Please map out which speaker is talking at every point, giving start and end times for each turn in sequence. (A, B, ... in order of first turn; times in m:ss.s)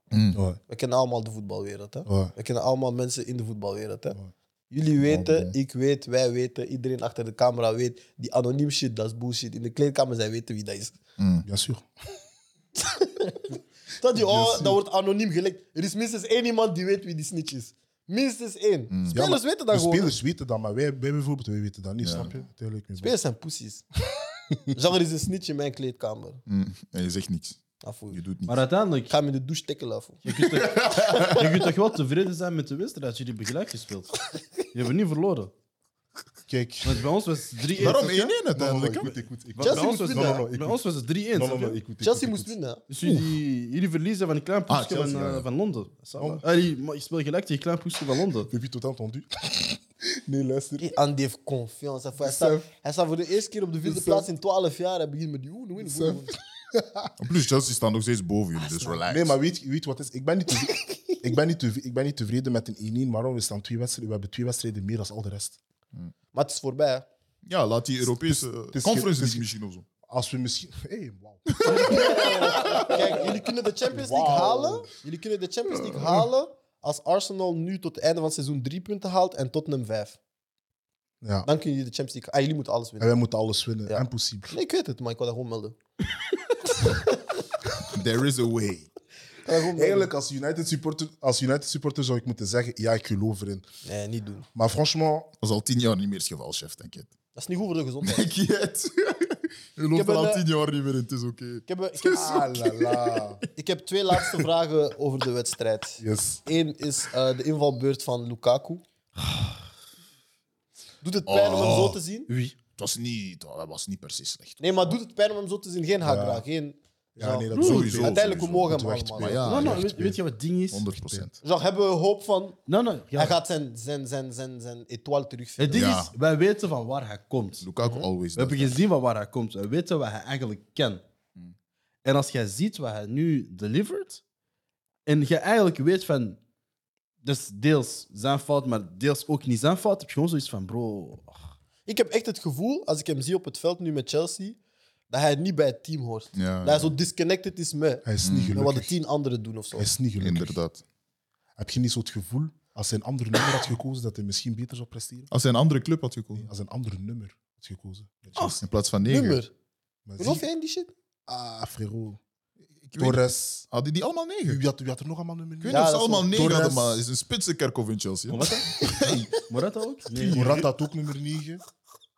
0:00.1-0:00.4 A
0:00.3-0:00.6 B
0:00.7-0:04.2 C
0:02.0-0:02.3 B
0:04.7-0:11.0 C
0:05.0-0:05.5 A
0:11.2-0:11.4 A
0:11.4-0:11.9 B
0:12.8-0:20.1 C
0:14.1-0:14.8 B
0:18.9-0:19.2 A
0:19.1-0:23.1 B
0:22.0-0:22.3 A
0:23.0-0:23.8 C
0:24.5-0:24.7 B
0:24.7-0:26.4 C
0:26.5-0:27.6 A
0:27.8-0:28.2 C
0:28.1-0:28.6 A
0:28.5-0:29.1 D
0:29.1-0:31.4 C
0:30.2-0:35.5 D
0:30.3-0:31.4 A
0:36.5-0:37.0 B
0:36.8-0:38.3 D
0:37.8-0:39.1 A
0:38.5-0:40.8 B
0:39.6-0:41.8 D
0:39.6-0:40.4 C
0:41.3-0:42.5 B
0:42.0-0:42.8 C
0:42.9-0:48.5 D
0:44.7-0:45.4 A
0:46.2-0:46.4 B
0:48.5-0:50.9 B
0:50.8-0:56.4 C
0:52.2-0:52.6 B
0:53.8-0:54.3 B
0:55.8-0:57.1 B
0:57.2-0:59.3 A
0:59.0-1:05.6 B
1:06.3-1:07.1 C
1:07.4-1:09.8 A
1:08.0-1:09.5 B
1:10.0-1:14.9 B
1:11.6-1:20.2 C
1:11.7-1:13.0 A
1:15.9-1:16.2 A
1:21.2-1:21.5 B
1:21.4-1:23.1 C
1:23.0-1:24.5 B
1:23.9-1:25.8 C
1:27.9-1:28.9 A
1:29.4-1:30.1 C
1:29.7-1:33.6 B
1:33.8-1:34.5 C
1:34.5-1:35.3 B
1:35.4-1:37.1 A
1:37.3-1:38.3 C
1:38.0-1:43.0 A
1:39.9-1:40.4 C
1:41.7-1:42.5 C
1:42.1-1:43.4 B
1:43.5-1:48.8 C
1:46.0-1:46.4 B
1:51.0-1:52.3 C
1:51.3-1:52.0 A
1:52.3-1:52.6 D
1:52.8-1:55.0 A
1:54.6-1:59.5 C
1:56.0-1:56.4 B
1:57.2-2:00.2 B
1:57.5-1:57.9 D
1:57.5-2:00.0 A
1:59.4-2:00.9 D
2:00.7-2:01.3 A
2:00.9-2:01.2 B
2:01.4-2:02.6 C
2:02.7-2:03.4 D
2:03.1-2:05.9 C
2:05.6-2:07.6 D
2:05.7-2:06.1 A
2:07.6-2:08.8 A
2:07.8-2:08.1 C
2:08.4-2:11.0 D
2:12.0-2:14.2 D
2:15.0-2:16.4 D
2:17.2-2:21.4 D
2:21.8-2:24.6 C
2:25.1-2:29.9 C
2:26.3-2:26.9 A
2:28.0-2:28.9 B
2:28.2-2:28.6 A
2:29.7-2:30.6 B
2:30.2-2:30.8 A
2:31.6-2:35.3 B
2:35.3-2:36.5 A
2:36.3-2:38.6 B
2:38.6-2:39.4 A
2:39.1-2:39.5 C
2:40.0-2:40.4 B
2:40.2-2:40.9 C
2:41.3-2:42.2 B
2:42.8-2:44.6 A
2:43.0-2:43.6 B
2:44.4-2:47.0 B
2:45.6-2:49.4 A
2:45.7-2:46.5 C
2:48.3-2:50.6 D
2:50.1-2:50.6 A
2:50.3-2:51.6 B